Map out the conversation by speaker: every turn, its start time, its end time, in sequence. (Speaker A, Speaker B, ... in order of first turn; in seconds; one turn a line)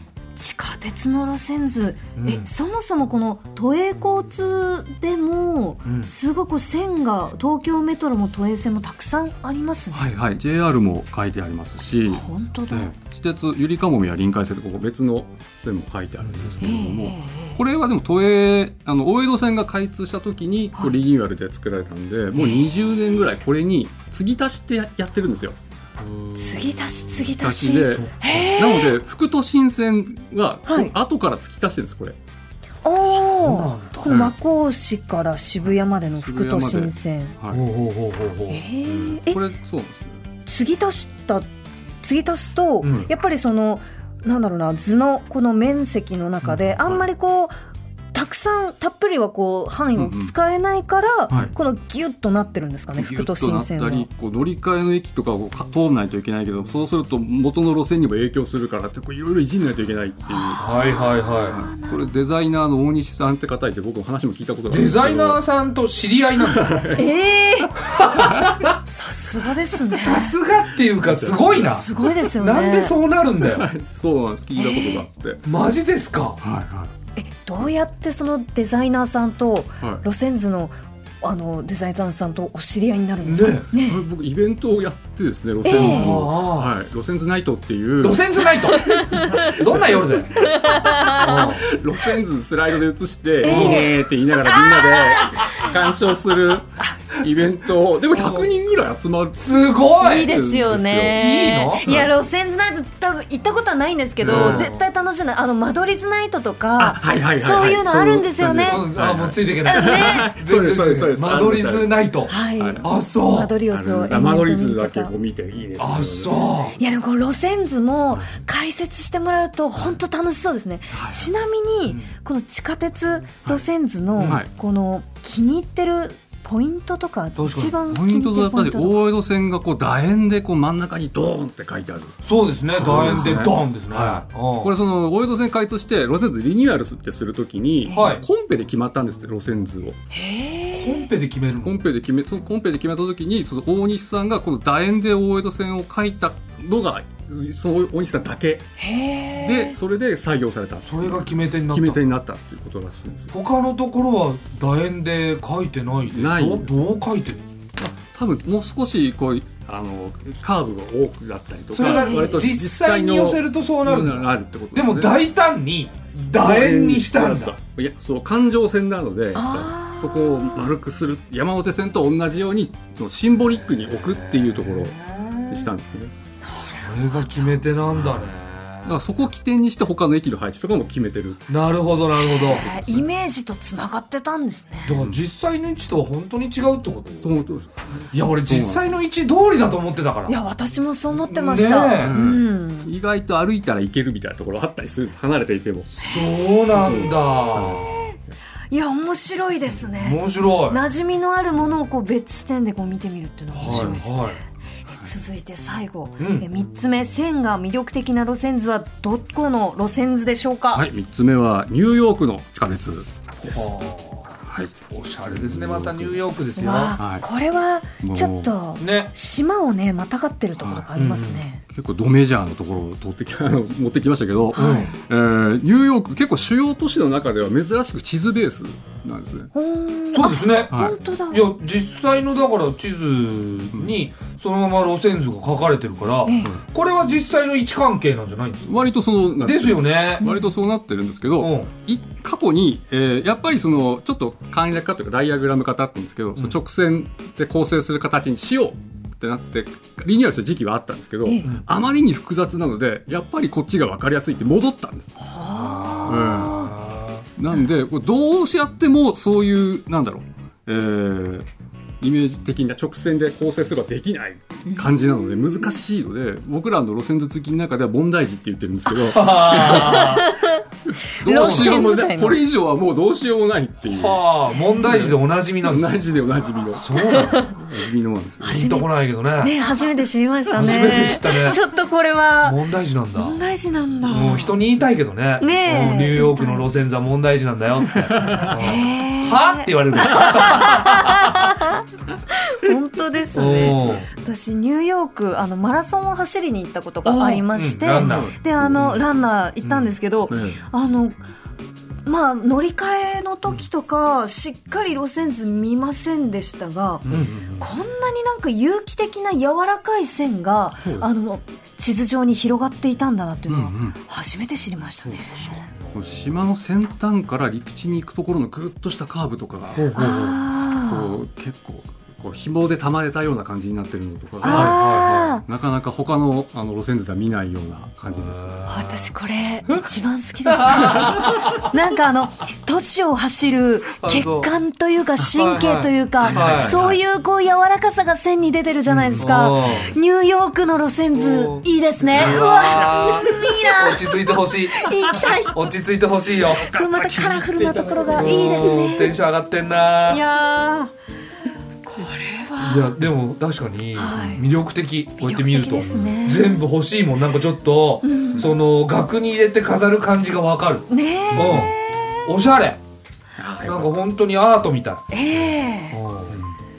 Speaker A: 0.3-10.1
Speaker B: 2.2-2.5
Speaker B: 5.8-6.1
Speaker C: 9.9-25.6
Speaker A: 12.1-12.9
Speaker B: 16.2-16.6
Speaker A: 16.6-17.6
Speaker A: 26.3-28.9
Speaker C: 27.1-32.1
Speaker A: 30.7-30.9
Speaker A: 32.8-37.3
Speaker B: 33.2-34.2
Speaker C: 34.0-34.3
Speaker C: 36.1-37.6
Speaker B: 37.5-38.6
Speaker A: 38.5-39.4
Speaker C: 38.8-40.2
Speaker A: 40.5-41.5
Speaker A: 42.0-47.5
Speaker B: 42.8-43.1
Speaker C: 46.5-47.0
Speaker A: 48.1-54.1
Speaker C: 50.0-50.3
Speaker C: 52.9-65.4
Speaker A: 60.3-62.1
Speaker B: 60.6-61.6
Speaker B: 64.7-67.0
Speaker C: 66.4-67.0
Speaker A: 66.9-68.0
Speaker B: 67.8-68.8
Speaker C: 68.2-68.6
Speaker A: 68.8-70.3
Speaker B: 69.9-73.7
Speaker C: 71.0-72.2
Speaker A: 71.5-72.9
Speaker C: 73.4-75.4
Speaker A: 74.6-75.0
Speaker B: 75.4-76.4
Speaker C: 76.4-76.9
Speaker A: 77.2-84.0
Speaker B: 83.2-83.7
Speaker C: 83.7-101.2
Speaker A: 85.6-86.2
Speaker B: 85.7-86.7
Speaker B: 88.0-90.4
Speaker A: 88.6-89.5
Speaker A: 90.4-91.5
Speaker B: 91.2-91.7
Speaker B: 93.4-93.9
Speaker A: 93.4-95.7
Speaker B: 98.1-98.5
Speaker B: 99.3-100.3
Speaker A: 100.0-108.9
Speaker B: 101.1-101.8
Speaker C: 101.8-102.1
Speaker C: 104.2-104.8
Speaker B: 104.2-104.7
Speaker C: 106.8-112.8
Speaker B: 108.6-113.5
Speaker A: 109.6-110.3
Speaker A: 112.3-115.1
Speaker C: 113.7-116.4
Speaker B: 115.8-116.8
Speaker A: 116.8-129.0
Speaker C: 120.9-121.3
Speaker C: 124.2-124.5
Speaker B: 127.3-127.8
Speaker C: 127.9-132.2
Speaker B: 132.2-134.7
Speaker C: 132.7-140.0
Speaker A: 137.9-138.2
Speaker B: 137.9-138.2
Speaker A: 140.1-141.0
Speaker B: 140.7-141.8
Speaker C: 141.6-148.7
Speaker A: 148.8-149.8
Speaker C: 149.2-153.3
Speaker B: 150.8-152.0
Speaker B: 153.3-157.4
Speaker C: 156.1-156.9
Speaker C: 157.8-165.2
Speaker B: 161.7-167.6
Speaker A: 161.8-162.4
Speaker C: 166.2-176.1
Speaker A: 169.3-170.7
Speaker B: 174.3-175.5
Speaker A: 176.4-177.5
Speaker B: 176.6-179.0
Speaker C: 178.8-181.5
Speaker B: 181.5-182.7
Speaker A: 182.2-185.0
Speaker C: 182.6-183.1
Speaker B: 184.8-187.3
Speaker C: 184.9-185.2
Speaker C: 187.2-188.8
Speaker B: 188.1-190.4
Speaker A: 190.3-192.9
Speaker B: 191.1-192.2
Speaker C: 192.0-196.0
Speaker B: 196.0-197.9
Speaker A: 196.0-196.3
Speaker C: 196.7-197.9
Speaker A: 197.8-198.2
Speaker A: 198.7-204.4
Speaker B: 200.0-200.8
Speaker B: 203.5-204.4
Speaker C: 203.7-203.9
Speaker A: 205.0-210.9
Speaker B: 206.2-206.5
Speaker C: 210.7-213.7
Speaker B: 213.4-214.3
Speaker C: 214.4-214.7
Speaker B: 214.9-217.0
Speaker C: 215.3-216.2
Speaker A: 216.6-221.6
Speaker C: 217.0-217.2
Speaker C: 218.0-218.5
Speaker B: 218.8-219.1
Speaker C: 220.6-220.9
Speaker B: 220.9-221.4
Speaker C: 221.7-229.5
Speaker A: 224.5-224.9
Speaker B: 224.6-224.9
Speaker A: 229.5-231.5
Speaker B: 230.1-230.8
Speaker C: 230.7-231.0
Speaker B: 231.3-238.7
Speaker A: 236.2-236.5
Speaker C: 238.6-255.2
Speaker B: 239.4-240.2
Speaker A: 240.2-240.5
Speaker B: 241.4-241.7
Speaker A: 251.2-251.5
Speaker A: 255.2-256.7
Speaker B: 255.5-257.2
Speaker C: 256.1-256.6
Speaker C: 257.4-261.5
Speaker C: 262.0-270.3
Speaker B: 269.1-270.3
Speaker A: 269.5-272.4
Speaker C: 270.9-274.2
Speaker B: 271.2-271.9
Speaker B: 273.9-275.9
Speaker C: 274.8-278.7
Speaker B: 276.7-277.4
Speaker A: 277.0-277.5
Speaker A: 278.4-278.9
Speaker B: 278.4-279.6
Speaker A: 279.4-282.6
Speaker B: 280.5-281.6
Speaker B: 282.4-283.4
Speaker A: 283.1-284.5
Speaker B: 284.1-291.1
Speaker A: 285.4-286.7
Speaker C: 287.9-288.5
Speaker A: 288.5-301.2
Speaker B: 293.3-294.1
Speaker C: 293.6-294.0
Speaker C: 297.1-297.4
Speaker B: 297.5-298.3
Speaker C: 297.9-299.0
Speaker C: 299.7-300.6
Speaker A: 302.1-315.6
Speaker C: 307.1-307.7
Speaker B: 307.1-307.3
Speaker C: 310.8-311.1
Speaker C: 313.5-314.0
Speaker C: 315.1-328.6
Speaker B: 315.5-316.0
Speaker B: 319.7-320.4
Speaker A: 319.9-321.1
Speaker B: 324.4-325.3
Speaker A: 324.4-325.4
Speaker B: 328.1-328.9
Speaker A: 328.6-345.6
Speaker B: 330.5-331.2
Speaker C: 330.9-331.3
Speaker B: 334.0-334.5
Speaker B: 335.3-336.8
Speaker C: 336.2-337.0
Speaker C: 338.9-339.9
Speaker B: 339.1-339.9
Speaker B: 341.1-344.9
Speaker C: 342.1-343.7
Speaker B: 345.5-346.6
Speaker C: 346.5-349.0
Speaker A: 346.5-349.1
Speaker B: 348.1-350.2
Speaker A: 350.1-350.9
Speaker A: 351.8-353.0
Speaker B: 352.6-361.7
Speaker A: 353.9-354.5
Speaker A: 355.2-356.6
Speaker A: 358.0-358.5
Speaker A: 360.9-362.3
Speaker C: 361.3-361.7
Speaker B: 362.2-362.8
Speaker C: 363.4-363.9
Speaker B: 363.6-365.1
Speaker A: 365.1-366.0
Speaker B: 365.9-366.4